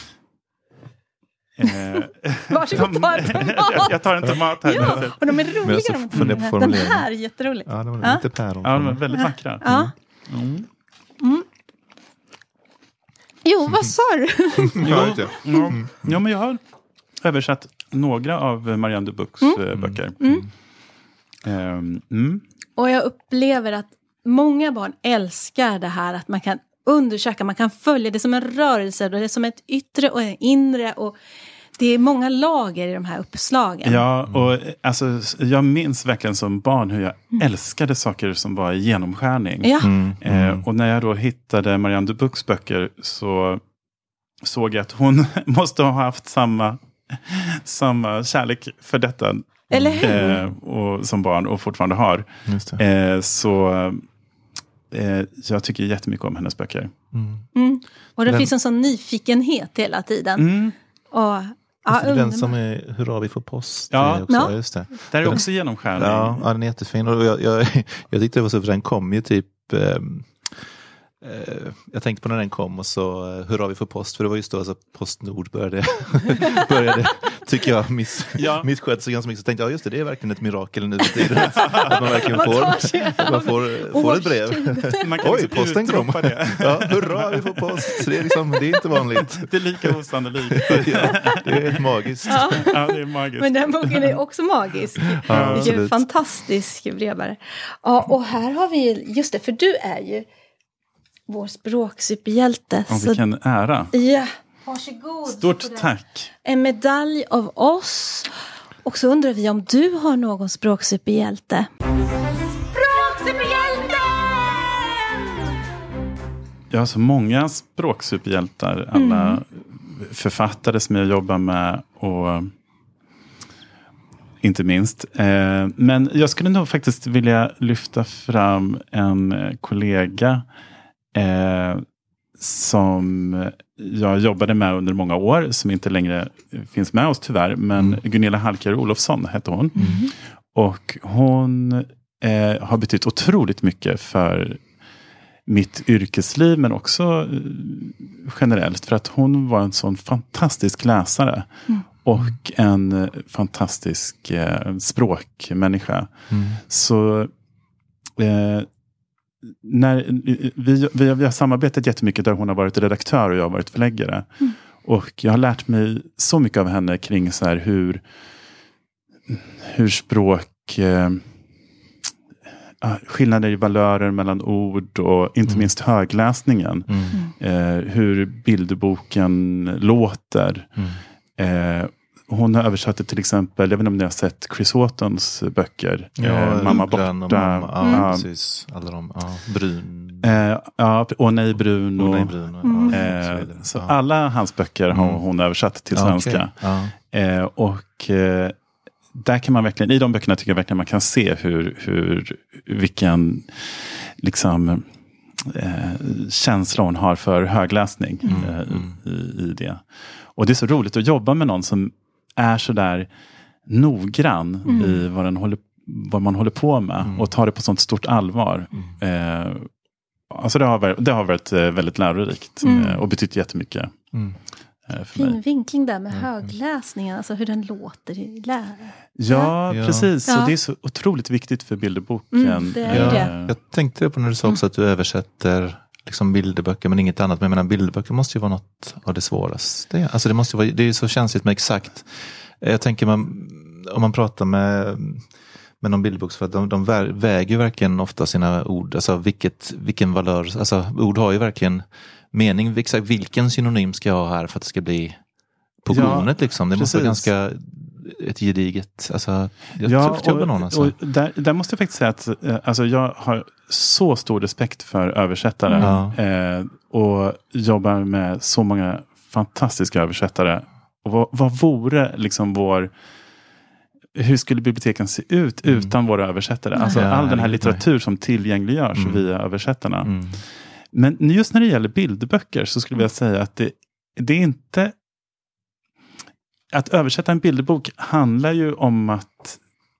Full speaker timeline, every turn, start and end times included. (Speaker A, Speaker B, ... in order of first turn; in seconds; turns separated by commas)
Speaker A: 1.6-5.3, Speaker B: 1.7-4.0, Speaker B: 4.6-8.2, Speaker C: 5.6-7.1, Speaker A: 6.1-6.4, Speaker C: 7.7-9.0, Speaker A: 8.6-10.7, Speaker B: 9.1-9.9, Speaker B: 11.2-11.4, Speaker B: 13.4-15.8, Speaker C: 14.6-16.1, Speaker A: 14.8-16.6, Speaker A: 17.2-20.4, Speaker C: 19.7-20.0, Speaker B: 20.2-20.5, Speaker A: 21.4-22.4, Speaker B: 22.8-31.2, Speaker B: 31.8-34.0, Speaker A: 33.8-43.6, Speaker C: 34.2-34.5, Speaker B: 39.6-39.9, Speaker C: 39.8-40.6, Speaker A: 44.4-54.0, Speaker B: 49.7-50.4, Speaker C: 49.7-50.4, Speaker C: 52.5-52.8, Speaker A: 54.9-56.9, Speaker C: 57.1-57.5, Speaker B: 57.5-60.5, Speaker C: 58.2-58.5, Speaker A: 60.4-60.7, Speaker B: 61.1-62.5, Speaker C: 61.9-70.7, Speaker A: 63.9-64.5, Speaker B: 64.3-64.5, Speaker A: 65.1-66.5, Speaker C: 71.2-89.9, Speaker A: 78.3-78.7, Speaker B: 81.2-85.2, Speaker A: 81.5-82.6, Speaker A: 85.0-88.0, Speaker B: 87.9-89.0, Speaker A: 89.2-94.2, Speaker C: 90.5-92.7, Speaker B: 90.8-91.4, Speaker B: 92.3-100.3, Speaker C: 95.2-96.0, Speaker A: 95.3-95.8, Speaker B: 101.3-103.2, Speaker A: 102.9-103.9, Speaker B: 103.9-105.9, Speaker A: 105.3-106.3, Speaker B: 106.4-108.3, Speaker B: 108.8-111.7, Speaker B: 112.7-115.2, Speaker A: 116.7-122.5, Speaker B: 118.9-119.4, Speaker A: 124.4-130.4, Speaker A: 131.1-131.8, Speaker A: 132.4-139.9, Speaker B: 139.7-140.1, Speaker C: 139.8-140.0, Speaker A: 140.5-144.6, Speaker A: 145.4-151.5, Speaker A: 152.0-156.1, Speaker C: 156.3-156.6, Speaker A: 156.7-157.3, Speaker A: 158.2-158.7, Speaker A: 159.6-164.3, Speaker A: 164.8-168.0, Speaker A: 169.3-171.2, Speaker A: 172.8-180.7, Speaker C: 175.4-175.7, Speaker C: 176.9-177.2, Speaker A: 181.4-188.3, Speaker C: 186.2-190.4, Speaker B: 187.8-188.1, Speaker A: 190.2-198.6, Speaker C: 191.6-193.9, Speaker B: 192.6-193.0, Speaker C: 194.9-195.2, Speaker C: 195.9-196.9, Speaker A: 199.1-204.9, Speaker A: 205.4-209.8, Speaker C: 208.2-209.0, Speaker A: 210.3-213.1, Speaker A: 213.7-219.7, Speaker B: 214.7-215.0, Speaker C: 217.0-217.3, Speaker A: 220.3-223.9, Speaker B: 222.6-223.0, Speaker C: 222.7-223.0, Speaker A: 224.9-225.4, Speaker B: 225.1-229.5, Speaker A: 229.2-233.5, Speaker C: 229.7-230.1, Speaker B: 230.3-230.5, Speaker B: 232.3-233.3, Speaker C: 232.9-245.3, Speaker C: 245.8-255.2, Speaker C: 255.8-260.9, Speaker A: 255.9-257.3, Speaker A: 259.8-272.9, Speaker C: 265.8-266.2, Speaker A: 274.1-280.1, Speaker C: 275.6-275.9, Speaker B: 276.7-277.1, Speaker C: 276.9-277.8, Speaker C: 278.9-279.2, Speaker C: 280.0-280.4, Speaker A: 280.9-284.9, Speaker A: 286.7-289.6